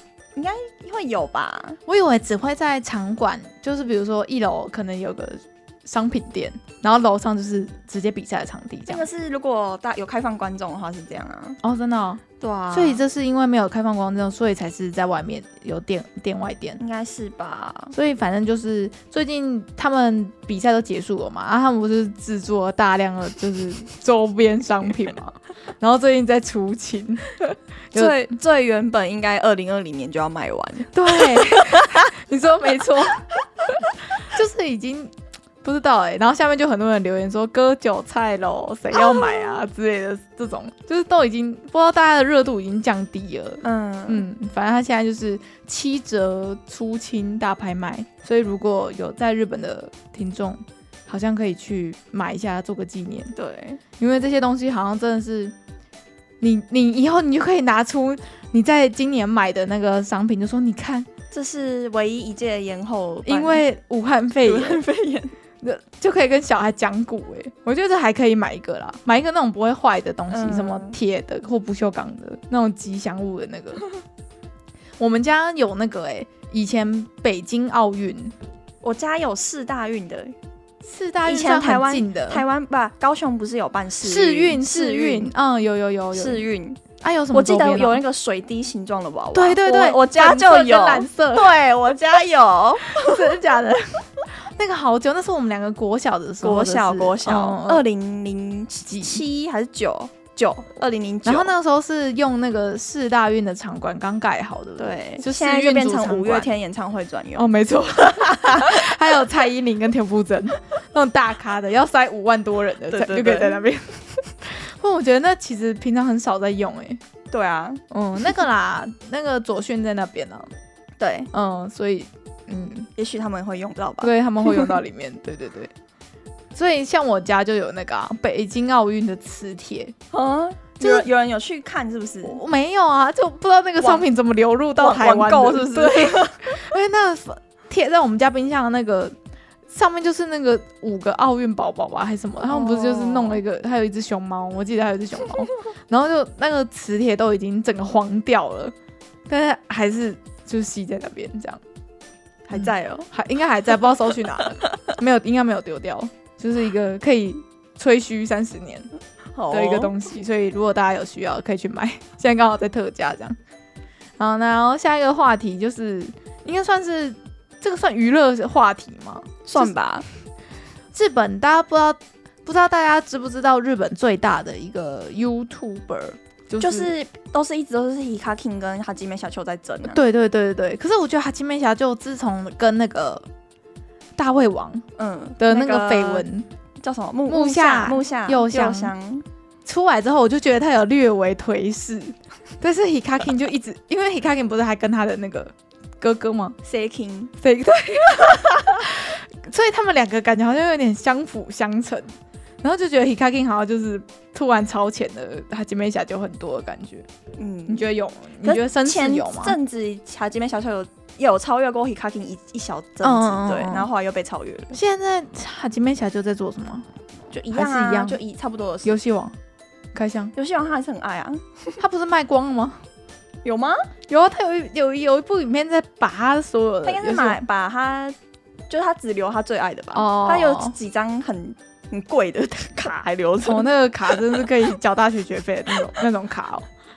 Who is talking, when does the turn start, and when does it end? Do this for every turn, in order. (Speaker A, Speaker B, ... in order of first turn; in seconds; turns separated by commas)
Speaker A: 0.3-1.8, Speaker B: 1.9-9.1, Speaker A: 8.9-11.6, Speaker B: 11.6-16.8, Speaker A: 12.4-13.0, Speaker A: 16.8-17.9, Speaker B: 17.9-28.2, Speaker A: 27.9-32.1, Speaker B: 30.9-53.3, Speaker A: 39.0-39.6, Speaker A: 43.6-44.2, Speaker A: 53.3-53.8, Speaker B: 54.0-55.5, Speaker B: 56.4-61.1, Speaker A: 61.3-63.6, Speaker B: 63.2-64.8, Speaker A: 64.4-65.3, Speaker B: 65.6-73.8, Speaker A: 70.3-71.0, Speaker B: 75.0-78.3, Speaker A: 78.8-80.3, Speaker B: 80.8-82.4, Speaker A: 81.2-85.3, Speaker B: 84.0-86.4, Speaker A: 86.1-93.4, Speaker B: 87.0-88.0, Speaker B: 89.3-91.5, Speaker B: 92.8-94.0, Speaker B: 94.5-97.8, Speaker A: 96.4-101.5, Speaker B: 98.9-99.2, Speaker B: 101.2-106.5, Speaker A: 104.8-107.5, Speaker B: 107.3-117.0, Speaker A: 108.1-108.9, Speaker A: 112.9-113.6, Speaker A: 117.3-117.8, Speaker B: 117.9-120.5, Speaker A: 121.0-121.3, Speaker B: 121.3-122.9, Speaker A: 123.0-124.7, Speaker B: 124.0-125.7, Speaker B: 126.5-129.9, Speaker A: 130.1-132.4, Speaker B: 130.8-131.1, Speaker B: 132.2-139.1, Speaker A: 133.8-134.0, Speaker A: 134.8-136.4, Speaker B: 139.7-148.7, Speaker A: 142.4-143.4, Speaker B: 149.3-151.6, Speaker A: 152.5-153.1, Speaker B: 152.5-158.9, Speaker A: 159.3-160.1, Speaker B: 159.5-163.3, Speaker B: 164.2-169.7, Speaker A: 169.4-170.0, Speaker B: 170.9-176.9, Speaker A: 176.6-180.0, Speaker B: 179.9-183.2, Speaker B: 184.2-184.8, Speaker A: 185.0-186.2, Speaker B: 185.4-186.5, Speaker A: 186.8-189.2, Speaker B: 187.3-188.9, Speaker B: 189.6-196.6, Speaker A: 196.6-197.3, Speaker B: 197.4-207.1, Speaker A: 207.4-207.9, Speaker B: 207.7-209.6, Speaker A: 208.4-214.8, Speaker B: 213.0-213.9, Speaker B: 214.7-216.9, Speaker A: 217.3-218.9, Speaker B: 217.5-218.2, Speaker B: 218.8-219.3, Speaker B: 219.9-220.3, Speaker A: 220.3-221.7, Speaker B: 221.8-222.8, Speaker A: 223.4-223.8, Speaker B: 224.1-227.4, Speaker A: 226.8-228.2, Speaker A: 228.7-234.4, Speaker B: 229.9-230.8, Speaker B: 233.4-236.7